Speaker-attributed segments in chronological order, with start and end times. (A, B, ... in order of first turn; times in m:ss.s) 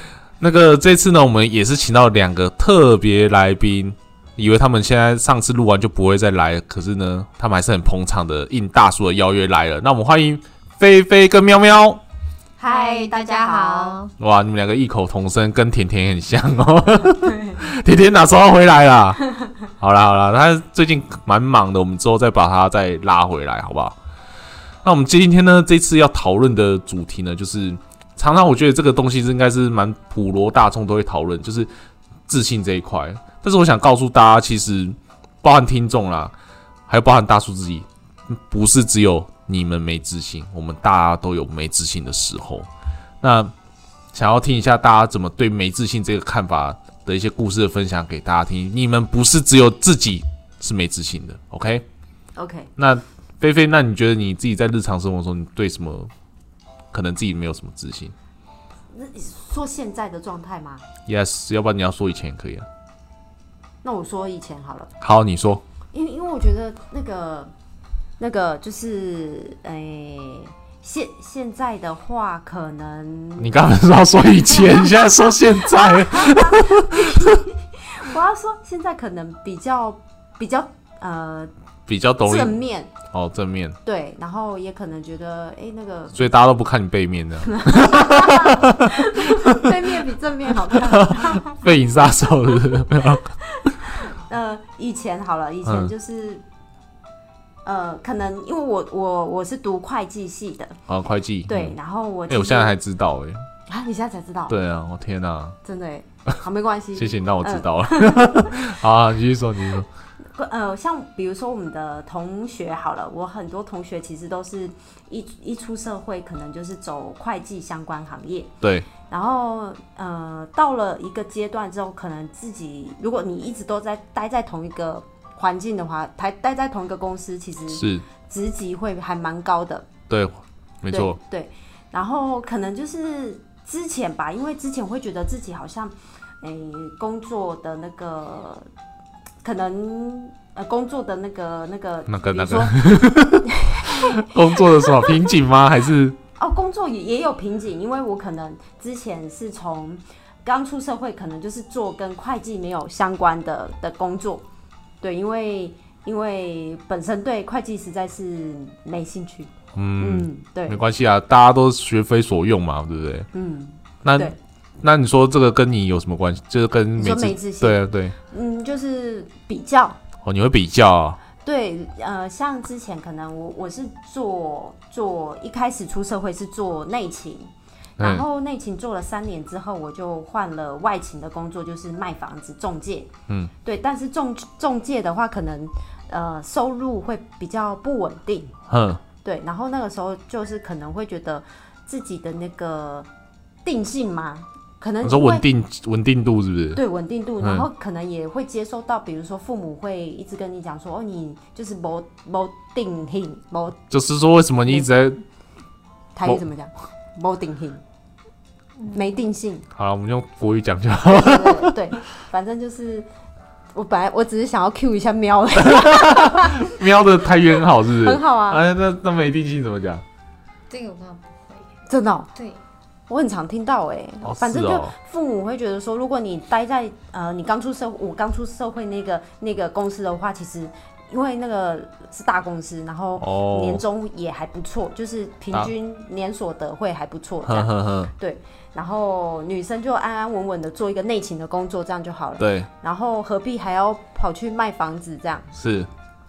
0:00.4-0:12.0 A
0:12.6-0:14.1 B
0:12.6-0:14.0 C
0:14.2-0:19.2 A
0:17.2-0:17.6 C
0:19.8-0:24.0 A
0:24.8-0:31.7 A
0:32.3-0:36.3 A
0:36.9-0:42.7 A
0:43.2-0:43.5 A
0:44.1-0:51.8 A
0:52.3-0:52.7 C
0:52.8-0:56.1 A
0:56.9-0:58.1 A
0:58.9-1:00.8 C
1:01.0-1:02.6 A
1:03.8-1:04.9 C
1:05.0-1:05.6 A
1:05.9-1:07.5 C
1:08.2-1:13.6 C
1:13.4-1:17.3 A
1:14.2-1:21.5 C
1:21.9-1:22.6 A
1:22.2-1:22.9 C
1:23.1-1:23.8 A
1:23.8-1:26.2 C
1:26.1-1:28.9 A
1:27.4-1:31.6 C
1:29.6-1:29.9 A
1:30.7-1:33.3 A
1:33.7-1:36.4 C
1:35.6-1:35.9 A
1:37.6-1:40.8 C
1:40.9-1:41.8 A
1:41.5-1:42.8 C
1:42.3-1:43.4 A
1:43.7-1:44.6 C
1:44.5-1:45.6 A
1:45.6-1:48.7 C
1:46.9-1:49.9 A
1:50.3-1:58.5 C
1:58.6-1:58.9 A
1:59.1-2:09.9 C
2:07.7-2:08.0 A
2:10.1-2:11.2 A
2:10.9-2:18.7 C
2:19.4-2:22.8 C
2:22.1-2:26.2 A
2:23.4-2:24.2 C
2:24.8-2:25.1 C
2:26.4-2:34.4 C
2:35.0-2:40.8 C
2:39.7-2:43.3 A
2:43.3-2:44.4 C
2:44.0-2:48.2 A
2:47.0-2:50.0 C
2:50.2-2:51.2 A
2:51.4-3:03.1 C
2:58.0-2:58.2 A
3:03.6-3:08.5 C
3:08.7-3:09.0 A
3:09.2-3:13.1 C
3:13.6-3:15.4 C
3:15.0-3:16.8 A
3:16.7-3:23.8 C
3:17.4-3:17.7 A
3:23.9-3:25.2 A
3:26.1-3:27.8 C
3:28.8-3:29.2 B
3:28.9-3:29.6 C
3:29.7-3:31.7 A
3:31.0-3:33.1 C
3:33.7-3:36.7 C
3:35.6-3:40.0 A
3:37.8-3:38.6 C
3:40.7-3:41.7 B
3:41.9-3:42.3 C
3:42.3-3:42.6 B
3:43.1-4:05.5 C
3:44.2-3:44.9 A
3:53.2-3:53.8 A
3:57.4-3:58.1 A
4:02.4-4:02.7 A
4:05.5-4:05.9 A